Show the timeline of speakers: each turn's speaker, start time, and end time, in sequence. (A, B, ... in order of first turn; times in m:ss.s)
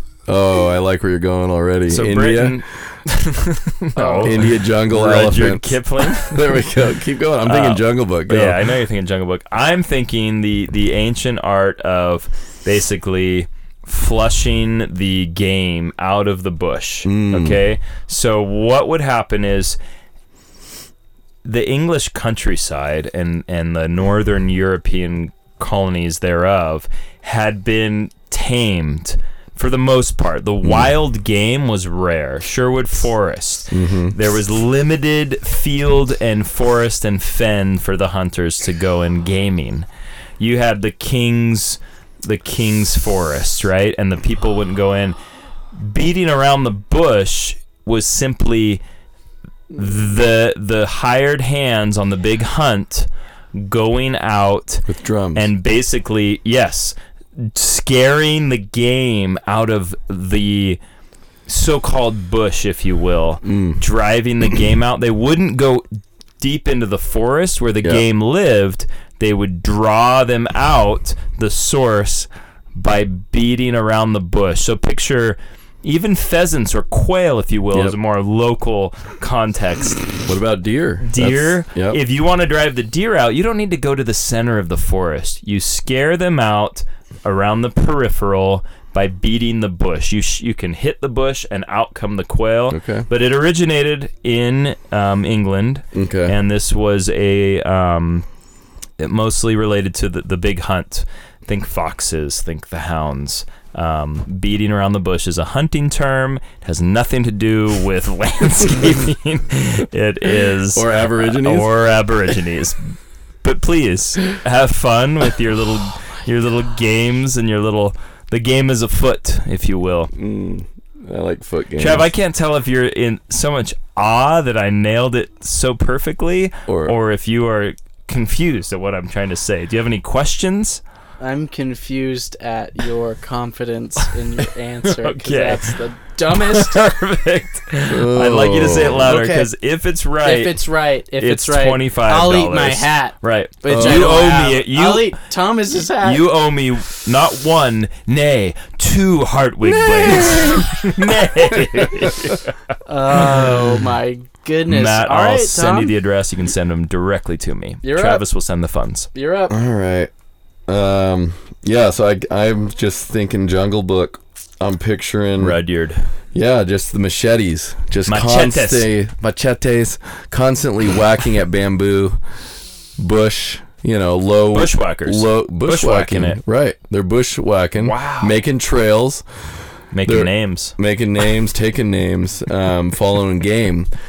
0:00.3-0:02.6 A
0:01.9-0:06.6 B
0:04.0-0:04.4 C
0:04.2-0:08.6 A
0:07.4-0:19.8 B
0:17.0-0:17.6 A
0:21.4-0:39.9 B
0:30.6-0:30.9 A
0:33.7-0:34.2 A
0:40.4-0:45.2 B
0:45.7-0:48.8 B
0:49.7-1:00.8 B
0:54.9-0:55.5 A
1:01.5-1:20.1 B
1:03.4-1:03.8 A
1:20.2-1:22.0 A
1:21.0-1:38.2 B
1:32.7-1:33.1 A
1:35.9-1:36.4 A
1:39.0-1:52.8 B
1:50.7-1:51.7 A
1:53.4-2:00.1 B
2:00.1-2:02.1 A
2:01.8-2:10.8 B
2:06.7-2:06.9 A
2:11.2-2:16.8 C
2:14.8-2:15.8 B
2:16.3-2:20.6 B
2:17.9-2:19.1 A
2:19.0-2:19.5 C
2:20.2-2:26.2 C
2:21.2-2:25.2 B
2:23.7-2:24.2 A
2:26.0-2:32.6 B
2:29.8-2:32.3 A
2:32.9-2:35.9 C
2:33.1-2:33.5 B
2:34.7-2:39.1 B
2:37.8-2:38.2 C
2:39.1-2:39.5 C
2:39.5-2:40.1 A
2:40.7-2:45.6 A
2:45.4-2:46.0 B
2:46.3-2:52.2 A
2:48.0-2:48.9 B
2:53.0-2:59.2 A
2:54.5-2:56.4 B
2:57.8-2:58.4 B
2:59.9-3:00.8 B
3:00.0-3:03.9 A